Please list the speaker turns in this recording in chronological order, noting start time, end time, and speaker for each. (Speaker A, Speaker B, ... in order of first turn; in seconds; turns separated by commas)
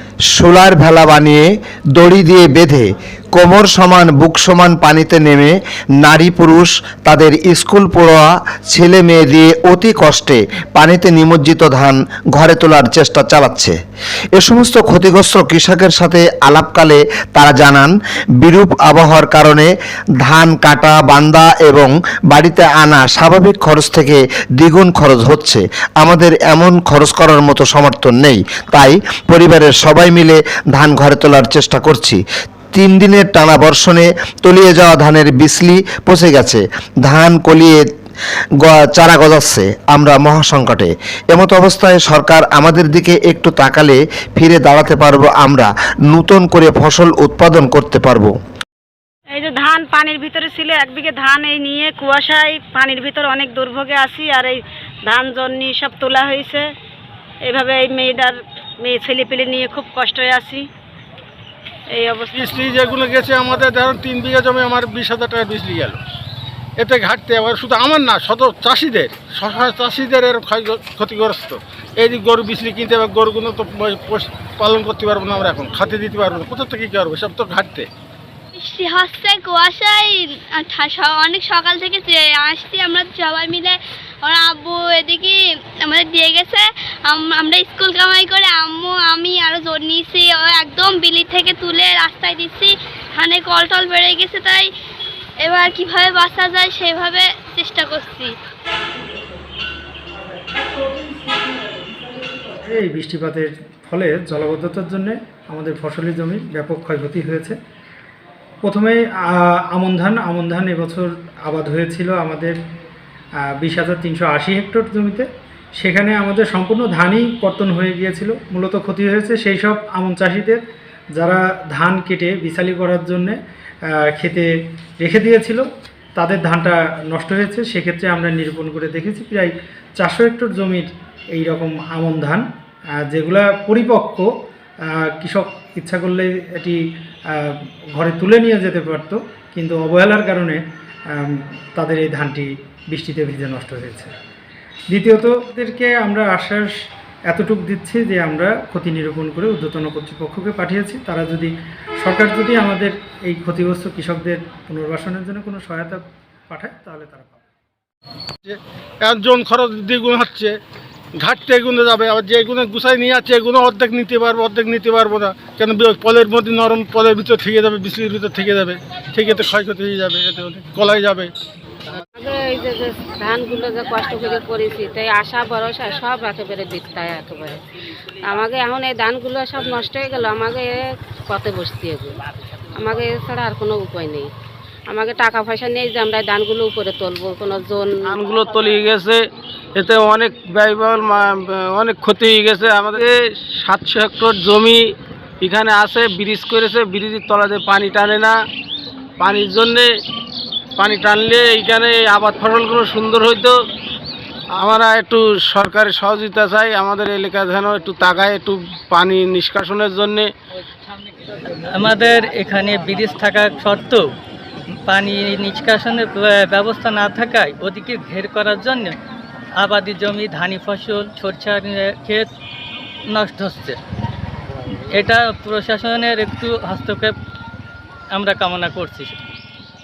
Speaker A: 0.3-13.7, Speaker A: 14.4-19.7, Speaker A: 20.2-32.2, Speaker A: 32.7-37.8, Speaker A: 38.6-48.3, Speaker B: 49.3-56.7, Speaker B: 57.5-60.6, Speaker B: 61.9-62.7, Speaker C: 62.3-66.0, Speaker C: 66.8-77.9, Speaker D: 78.6-94.7, Speaker D: 95.4-98.3, Speaker E: 102.6-107.6, Speaker E: 108.6-112.6, Speaker E: 113.4-120.6, Speaker E: 121.1-132.4, Speaker E: 133.0-134.3, Speaker E: 134.8-144.1, Speaker E: 144.9-146.7, Speaker E: 147.3-157.4, Speaker C: 158.4-160.5, Speaker C: 161.2-171.3, Speaker F: 172.1-177.6, Speaker F: 178.2-182.2, Speaker F: 182.8-184.3, Speaker F: 184.9-187.9, Speaker G: 188.3-189.0, Speaker G: 189.9-190.9, Speaker G: 191.8-192.9, Speaker G: 193.8-194.6, Speaker G: 195.7-196.8, Speaker G: 197.6-198.1, Speaker G: 202.2-202.8, Speaker G: 205.6-207.5, Speaker G: 208.2-208.5, Speaker G: 209.0-210.2, Speaker H: 211.7-214.1, Speaker H: 214.8-219.0, Speaker H: 219.5-222.3, Speaker H: 223.1-223.8, Speaker H: 224.8-227.2, Speaker H: 228.1-229.2